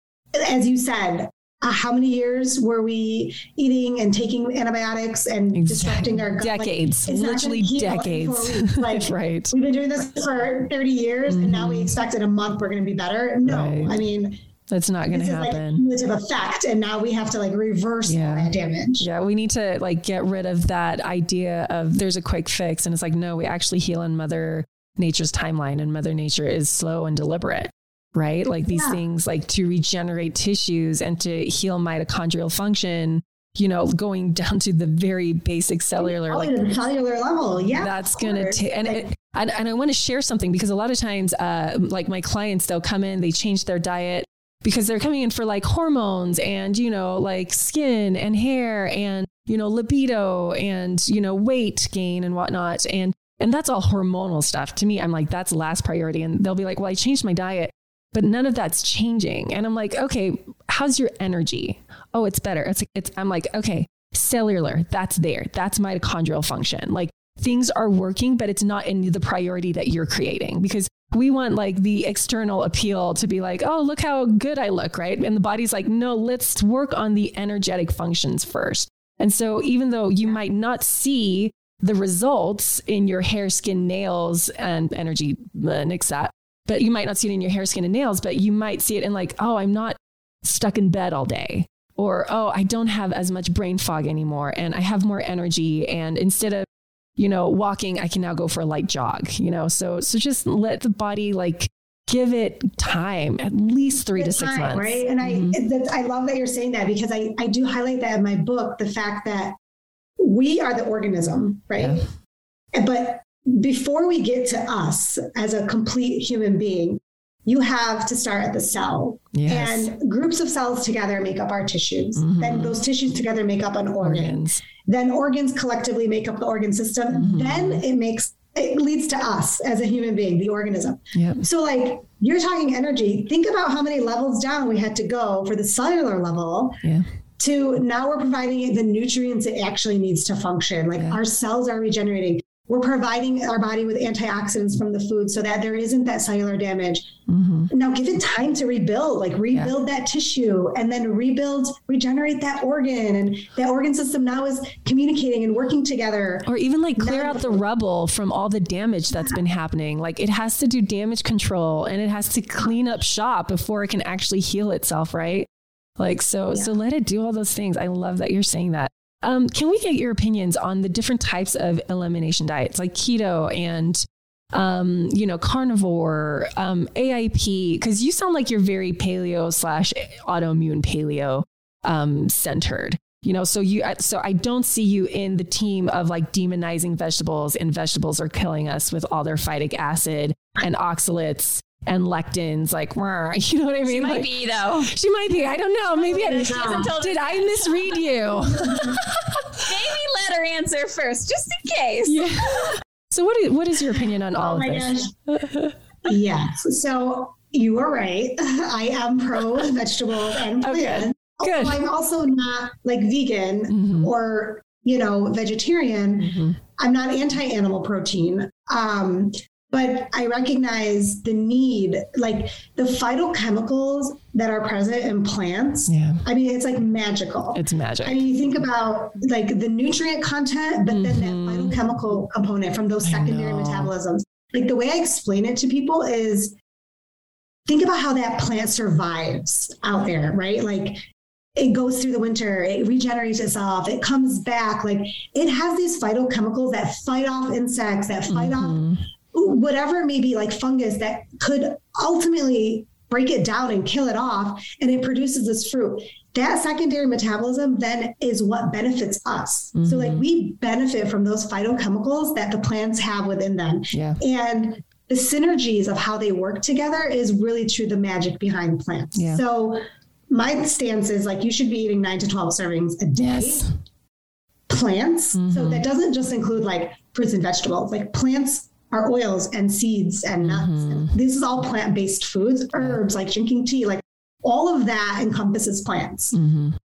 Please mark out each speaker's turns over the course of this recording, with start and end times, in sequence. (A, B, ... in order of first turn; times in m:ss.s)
0:00.4-0:14.4 A
0:05.5-0:09.5 B
0:11.3-0:12.0 B
0:13.4-0:14.0 B
0:14.7-0:15.8 B
0:15.1-0:19.1 A
0:18.0-0:36.7 B
0:28.7-0:29.0 A
0:36.0-0:39.1 A
0:37.7-1:36.7 B
1:37.2-1:45.6 B
1:44.2-1:49.6 A
1:50.2-1:52.1 A
1:51.8-1:52.1 B
1:52.8-2:16.8 A
1:59.3-1:59.9 B
2:02.2-2:02.8 B
2:04.0-2:04.6 B
2:07.1-2:07.8 B
2:11.1-2:11.4 B
2:17.4-2:27.1 A
2:27.3-2:27.7 B
2:27.7-2:37.6 A
2:36.5-3:19.9 B
3:13.9-3:14.9 C
3:15.9-3:18.4 C
3:16.2-3:16.9 A
3:18.6-3:19.0 A
3:19.5-3:22.8 C
3:22.0-3:25.8 B
3:24.3-3:25.2 A
3:26.0-3:56.6 A
3:30.3-3:31.8 B
3:33.7-3:34.1 B
3:36.2-3:36.6 B
3:45.9-3:46.2 B
3:47.5-3:48.2 B
3:50.9-3:51.8 B
3:53.0-3:53.9 B
3:57.7-4:01.0 A
4:01.6-4:08.8 A
4:08.3-4:09.0 B
4:09.3-4:33.7 A
4:19.8-4:20.3 B
4:23.9-4:24.2 B
4:29.2-4:29.4 B
4:33.2-4:33.7 B
4:34.7-4:46.4 A
4:35.4-4:35.8 B
4:40.4-4:41.2 B
4:46.3-4:46.8 B